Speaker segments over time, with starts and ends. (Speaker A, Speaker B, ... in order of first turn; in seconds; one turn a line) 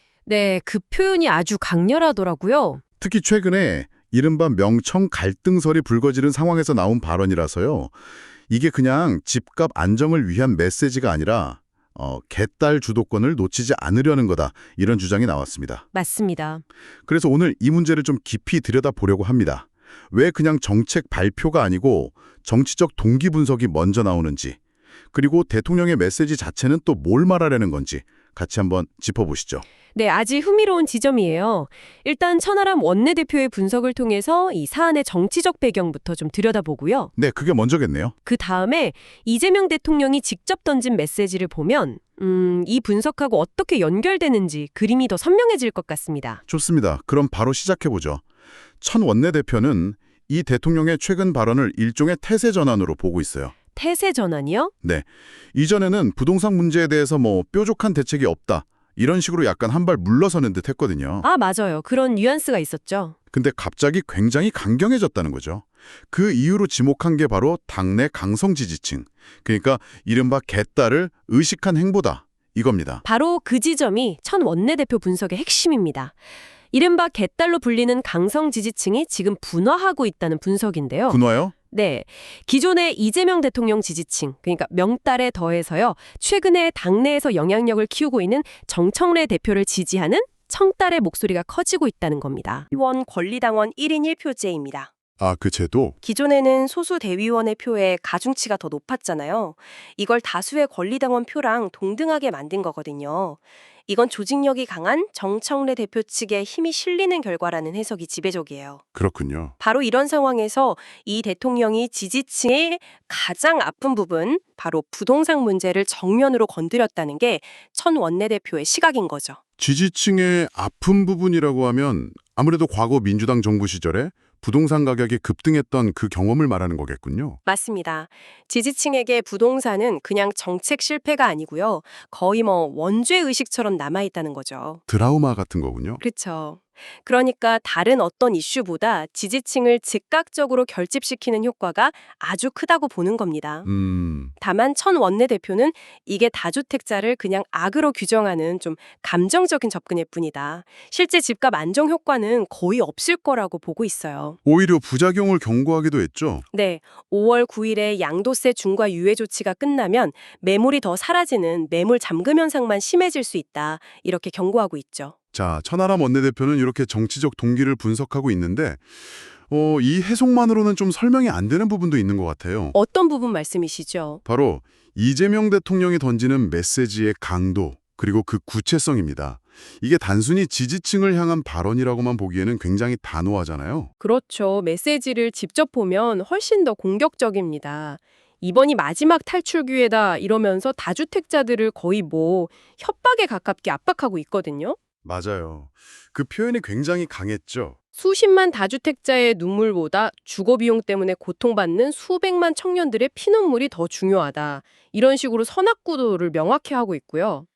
Speaker A: 0.2-2.8
Speaker B: 3.0-7.9
Speaker B: 8.5-15.8
Speaker A: 15.9-16.6
Speaker B: 17.1-24.6
Speaker B: 25.1-29.6
Speaker A: 29.9-37.1
Speaker B: 37.1-38.1
Speaker A: 38.2-46.4
Speaker B: 46.5-48.2
Speaker B: 48.8-53.5
Speaker A: 53.7-54.7
Speaker B: 54.8-61.3
Speaker A: 61.2-63.1
Speaker B: 63.3-73.0
Speaker A: 73.0-76.2
Speaker A: 76.7-81.2
Speaker B: 81.1-81.5
Speaker A: 81.7-94.9
Speaker B: 95.2-96.0
Speaker A: 96.0-108.8
Speaker B: 109.0-109.5
Speaker A: 109.6-119.4
Speaker B: 119.6-127.4
Speaker A: 127.4-134.8
Speaker B: 134.9-136.0
Speaker A: 136.0-143.7
Speaker B: 143.7-144.3
Speaker A: 144.4-154.4
Speaker B: 154.4-156.5
Speaker A: 156.5-165.2
Speaker B: 165.3-172.8
Speaker A: 172.7-174.2
Speaker B: 174.2-183.9
Speaker A: 184.0-194.8
Speaker B: 195.0-197.8
Speaker A: 198.0-207.5